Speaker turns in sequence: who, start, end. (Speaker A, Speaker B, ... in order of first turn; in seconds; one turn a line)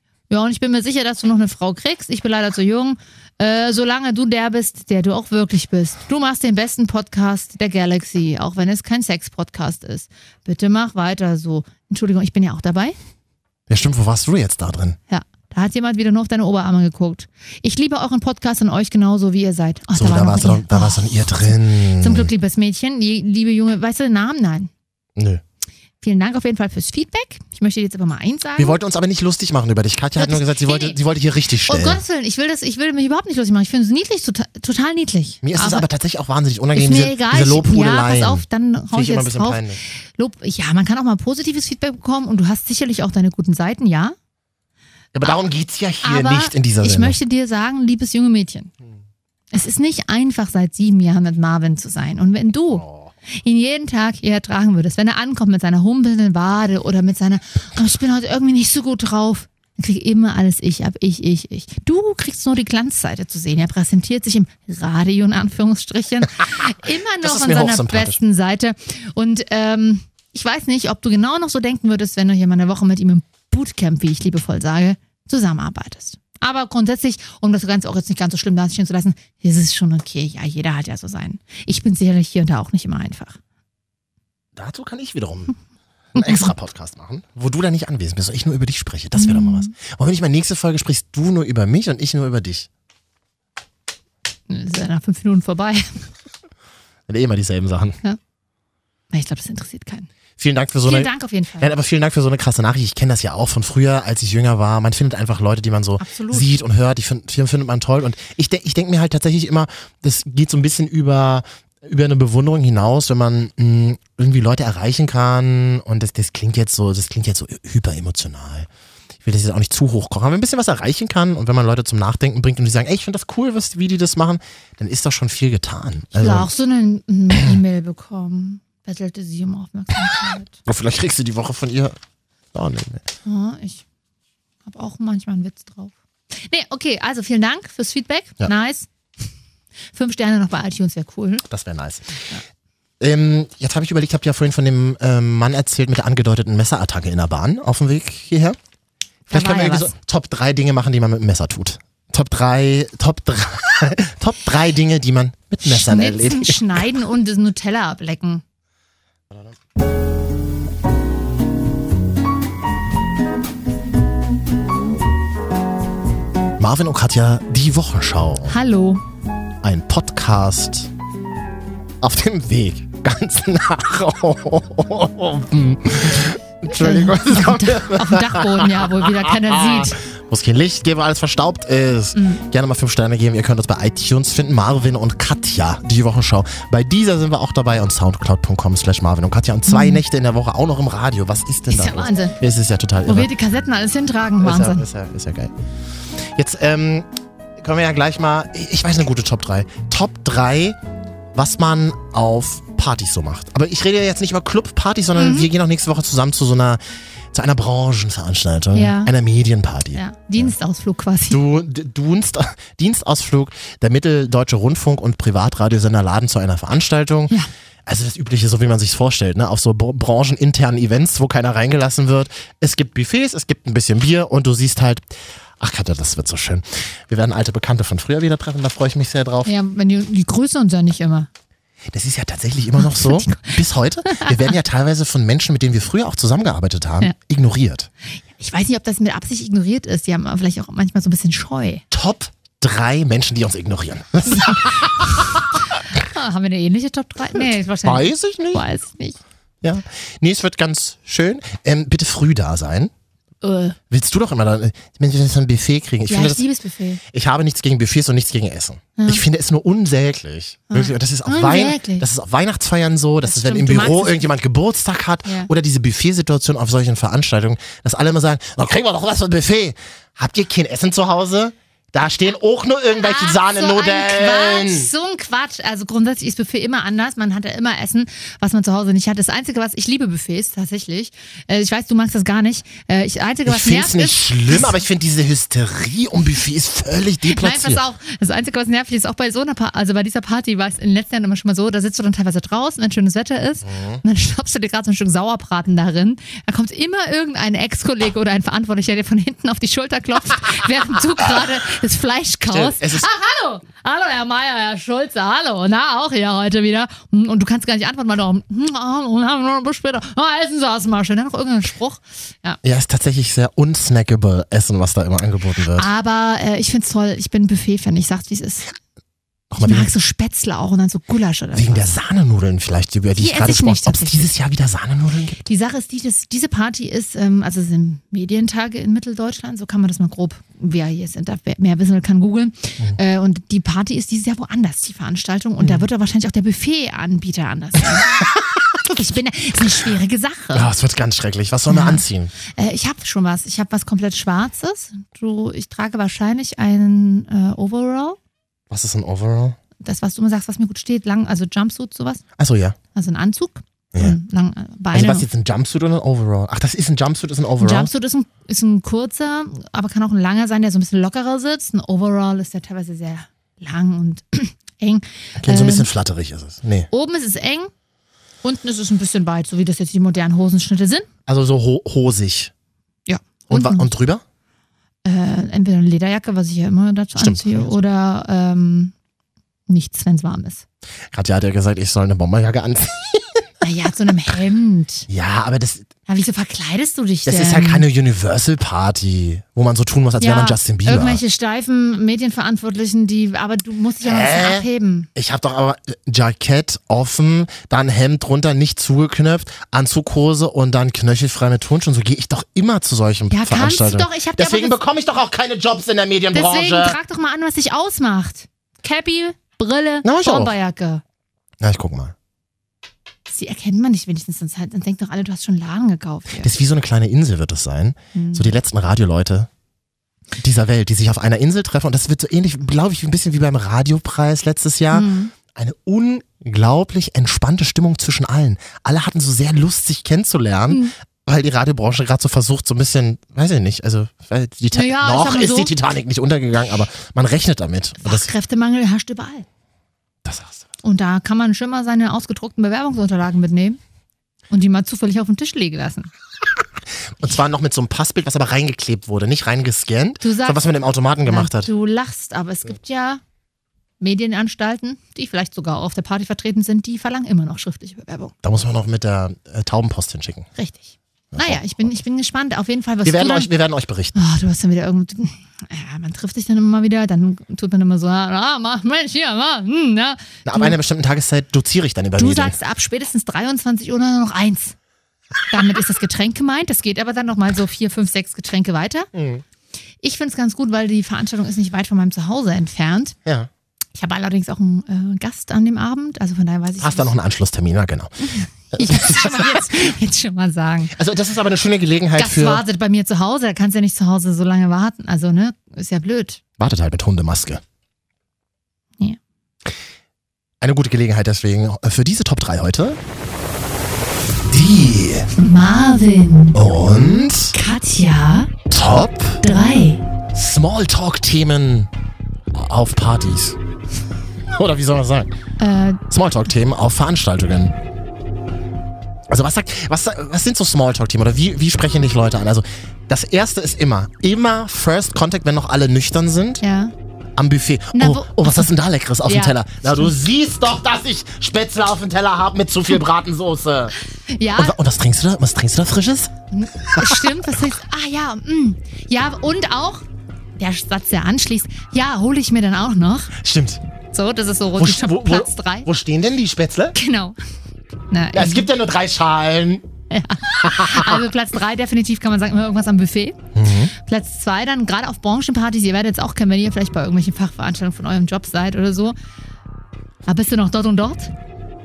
Speaker A: 0.3-13.0
Speaker B: 13.7-15.0
Speaker A: 15.1-24.7
Speaker B: 19.9-22.3
Speaker B: 25.2-25.4
Speaker A: 26.0-28.8
Speaker B: 28.6-32.0
Speaker A: 30.2-31.0
Speaker A: 31.7-35.9
Speaker B: 35.4-39.8
Speaker A: 36.8-44.2
Speaker B: 45.1-47.2
Speaker A: 46.0-48.7
Speaker A: 49.5-83.4
Speaker B: 52.7-53.1
Speaker B: 67.2-68.2
Speaker B: 84.6-85.5
Speaker B: 86.2-92.7
Speaker A: 86.2-86.5
Speaker A: 89.2-89.7
Speaker A: 94.5-96.1
Speaker B: 97.1-98.0
Speaker A: 99.1-100.1
Speaker B: 100.4-118.7
Speaker A: 100.8-101.7
Speaker A: 106.0-106.5
Speaker B: 119.2-126.5
Speaker A: 126.2-130.6
Speaker B: 130.7-132.0
Speaker B: 132.5-133.1
Speaker A: 133.2-133.8
Speaker A: 134.7-138.9
Speaker A: 139.9-141.4
Speaker B: 141.5-142.3
Speaker B: 143.0-148.6
Speaker A: 149.3-149.9
Speaker B: 149.3-156.9
Speaker A: 155.6-158.4
Speaker B: 166.6-168.6
Speaker A: 168.5-169.0
Speaker B: 169.6-170.9
Speaker B: 172.0-193.3
Speaker A: 176.7-180.0
Speaker A: 182.2-182.4
Speaker A: 189.7-190.0
Speaker A: 191.7-192.4
Speaker A: 193.1-194.8
Speaker B: 194.4-195.5
Speaker B: 196.1-200.8
Speaker B: 201.3-206.8
Speaker A: 205.2-205.5
Speaker B: 207.3-210.5
Speaker A: 208.7-209.1
Speaker A: 209.9-211.4
Speaker B: 211.3-217.3
Speaker B: 217.9-225.1
Speaker B: 225.6-229.5
Speaker A: 229.4-231.3
Speaker B: 231.9-237.9
Speaker A: 232.8-234.5
Speaker A: 238.3-241.8
Speaker B: 241.9-245.6
Speaker A: 245.9-249.2
Speaker B: 247.8-248.6
Speaker B: 249.6-252.9
Speaker A: 253.4-253.8
Speaker B: 253.9-256.4
Speaker A: 256.1-257.0
Speaker B: 257.1-274.9
Speaker A: 260.7-262.1
Speaker A: 263.2-264.3
Speaker A: 273.0-284.8
Speaker B: 283.5-287.8
Speaker A: 287.3-312.6
Speaker B: 293.6-294.0
Speaker B: 302.5-303.1
Speaker B: 312.6-315.9
Speaker A: 315.8-318.7
Speaker B: 319.5-319.9
Speaker A: 319.5-322.0
Speaker B: 321.6-325.4
Speaker A: 323.2-324.3
Speaker A: 325.5-338.1
Speaker B: 335.6-335.9
Speaker B: 337.9-338.6
Speaker A: 338.9-340.7
Speaker B: 340.5-342.3
Speaker A: 341.7-348.2
Speaker B: 348.7-349.6
Speaker A: 349.8-352.2
Speaker B: 352.4-352.8
Speaker A: 352.9-355.3
Speaker B: 354.9-357.9
Speaker A: 357.6-365.9
Speaker B: 365.4-366.9
Speaker A: 366.9-367.7
Speaker A: 368.4-371.1
Speaker B: 371.3-372.5
Speaker A: 373.1-373.9
Speaker B: 373.5-374.2
Speaker A: 375.1-378.9
Speaker B: 377.2-377.8
Speaker A: 379.7-380.6
Speaker B: 381.1-383.5
Speaker A: 383.6-385.1
Speaker B: 385.1-385.9
Speaker A: 386.1-387.9
Speaker B: 387.3-391.2
Speaker A: 390.2-395.1
Speaker B: 394.0-407.0
Speaker A: 403.3-404.8
Speaker A: 406.3-411.0
Speaker B: 410.0-410.5
Speaker B: 411.6-412.1
Speaker A: 413.3-416.5
Speaker B: 416.4-419.5
Speaker A: 418.1-418.6
Speaker B: 420.4-438.3
Speaker A: 424.9-425.3
Speaker A: 434.7-435.7
Speaker A: 438.0-439.5
Speaker B: 440.2-440.6
Speaker A: 440.8-443.8
Speaker A: 444.5-446.1
Speaker B: 447.2-451.7
Speaker A: 450.2-450.7
Speaker A: 451.2-453.2
Speaker A: 454.0-458.4
Speaker B: 458.4-460.5
Speaker A: 460.6-463.5
Speaker B: 461.3-461.9
Speaker B: 463.1-464.2
Speaker A: 464.1-470.8
Speaker B: 470.4-472.6
Speaker A: 472.2-474.8
Speaker A: 475.5-479.1
Speaker B: 479.1-479.4
Speaker A: 480.0-483.2
Speaker B: 483.2-483.5
Speaker A: 483.9-487.1
Speaker B: 486.8-488.2
Speaker A: 488.2-490.9
Speaker B: 488.7-489.9
Speaker B: 490.9-492.6
Speaker A: 492.2-496.4
Speaker B: 496.6-497.6
Speaker B: 500.6-503.0
Speaker B: 504.5-505.3
Speaker A: 505.4-506.6
Speaker B: 506.6-507.6
Speaker A: 507.5-508.5
Speaker B: 508.7-509.4
Speaker A: 509.4-510.0
Speaker B: 510.3-511.9
Speaker B: 512.5-513.6
Speaker B: 514.5-515.3
Speaker A: 515.6-516.0
Speaker B: 516.1-517.8
Speaker B: 519.3-526.6
Speaker A: 526.6-526.9
Speaker B: 527.4-534.0
Speaker A: 527.9-528.7
Speaker A: 529.2-530.1
Speaker A: 534.3-534.8
Speaker B: 534.5-536.3
Speaker A: 536.5-540.0
Speaker B: 536.9-537.2
Speaker A: 540.6-543.3
Speaker B: 543.3-543.8
Speaker A: 544.1-545.9
Speaker B: 544.8-547.0
Speaker A: 547.0-547.4
Speaker A: 548.1-548.7
Speaker B: 548.3-549.9
Speaker A: 550.1-553.4
Speaker B: 550.5-551.2
Speaker B: 553.5-553.9
Speaker A: 554.0-559.2
Speaker A: 560.3-561.3